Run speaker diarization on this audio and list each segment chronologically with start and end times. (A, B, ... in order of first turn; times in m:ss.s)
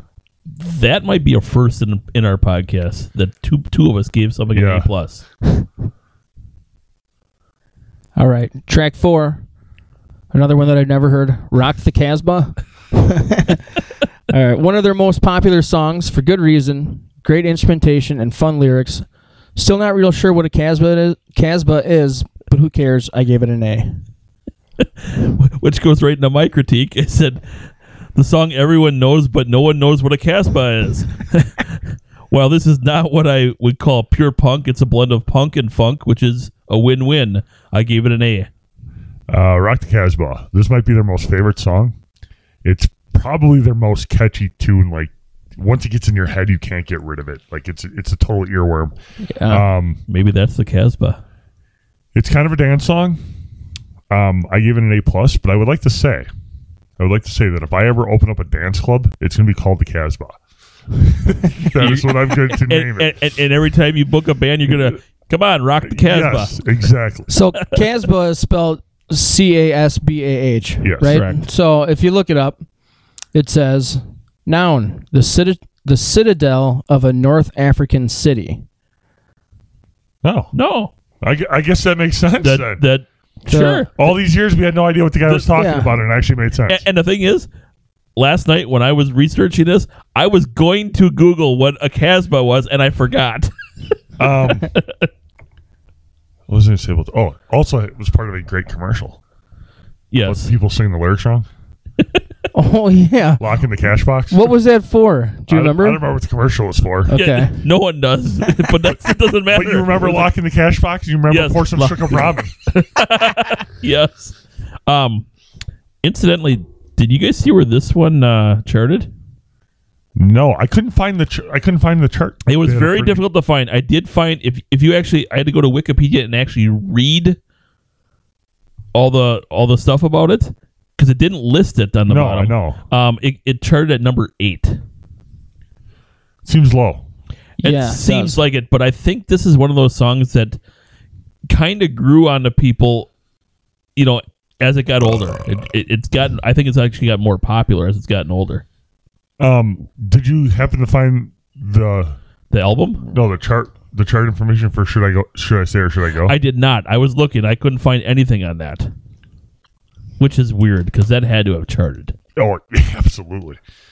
0:00.6-0:05.2 A
0:04.5-0:04.9 B
0:08.2-0:09.4 C
0:10.3-0:13.8 C
0:14.3-0:24.0 C
0:24.8-0:27.4 A
0:28.2-0:38.5 A
0:39.3-0:42.0 B
0:42.6-0:48.9 B
0:49.3-0:49.6 C
0:49.5-0:50.0 B
0:50.1-0:51.2 A
0:52.1-0:53.2 B
0:54.1-0:56.3 B
0:57.0-1:00.4 B
1:00.9-1:03.2 B
1:01.8-1:06.6 A
1:05.9-1:07.3 B
1:07.3-1:12.6 C
1:10.8-1:11.2 B
1:11.0-1:11.4 A
1:13.3-1:18.6 C
1:20.2-1:20.5 B
1:20.5-1:20.9 A
1:21.2-1:22.8 B
1:22.4-1:24.0 A
1:23.5-1:23.9 C
1:24.0-1:26.8 B
1:25.5-1:26.0 C
1:26.7-1:27.5 A
1:28.2-1:33.5 A
1:34.2-1:34.7 B
1:34.7-1:35.1 A
1:36.5-1:39.2 B
1:40.1-1:40.5 A
1:40.2-1:41.5 B
1:42.5-1:43.4 C
1:43.4-1:44.5 B
1:44.3-1:46.0 C
1:45.5-1:47.1 B
1:47.1-1:47.6 C
1:47.1-1:50.3 A
1:49.5-1:52.5 B
1:51.3-1:54.4 A
1:54.9-1:55.3 A
1:56.0-1:59.1 A
2:00.2-2:03.2 B
2:02.5-2:07.4 A
2:08.9-2:14.8 A
2:12.1-2:12.8 B
2:16.4-2:17.0 B
2:17.6-2:18.4 C
2:17.6-2:20.6 A
2:21.5-2:23.1 A
2:24.0-2:28.6 A
2:25.1-2:25.4 B
2:29.4-2:32.2 B
2:32.5-2:33.1 A
2:33.1-2:36.4 B
2:36.2-2:38.9 A
2:40.2-2:42.2 A
2:42.4-2:43.6 B